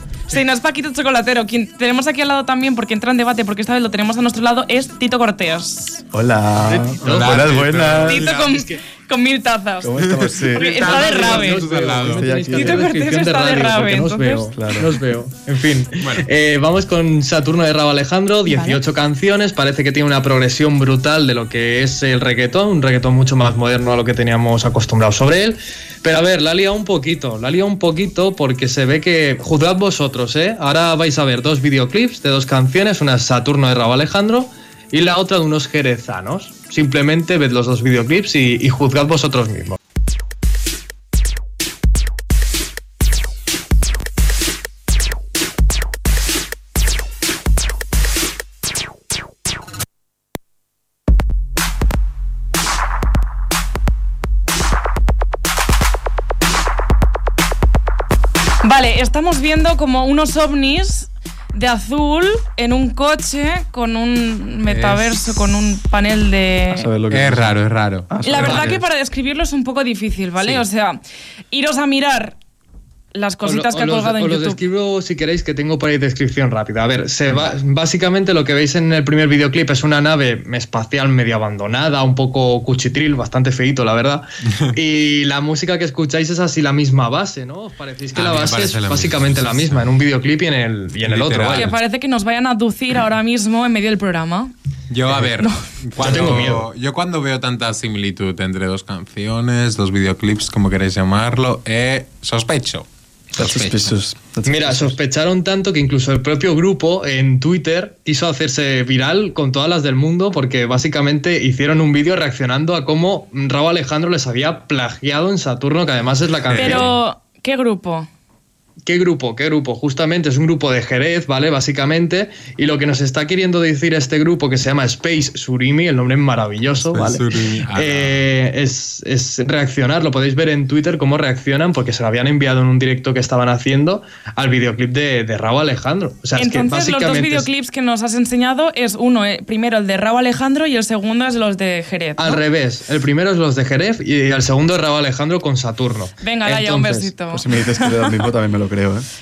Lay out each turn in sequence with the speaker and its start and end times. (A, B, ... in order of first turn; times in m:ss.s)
0:00.3-0:06.0 A
0:06.1-0:08.2 B
0:06.7-0:07.7 C
0:07.0-0:08.6 D
0:08.0-0:10.0 A
0:08.5-0:08.8 C
0:09.8-0:10.7 B
0:10.0-0:12.4 D
0:10.5-0:11.7 A
0:10.7-0:39.8 C
0:12.2-0:12.9 B
0:12.5-0:14.5 A
0:14.6-0:15.0 B
0:16.0-0:16.3 D
0:18.5-0:18.8 A
0:58.6-1:06.9 A
1:04.7-1:05.3 D
1:06.8-1:07.6 B
1:07.1-1:08.8 D
1:08.1-1:08.7 B
1:08.2-1:11.0 A
1:11.5-1:12.4 A
1:13.1-1:14.6 A
1:13.4-1:31.7 C
1:28.1-1:30.0 D
1:31.0-1:31.8 D
1:31.5-1:34.5 A
1:34.9-1:43.9 D
1:36.0-1:36.7 C
1:43.4-1:45.0 B
1:44.4-1:56.9 C
1:56.5-1:57.0 D
1:56.6-1:58.1 A
1:58.9-2:17.5 C
2:06.9-2:08.3 D
2:16.4-2:22.4 A
2:22.2-2:26.9 C
2:26.2-2:28.2 A
2:26.6-2:29.1 B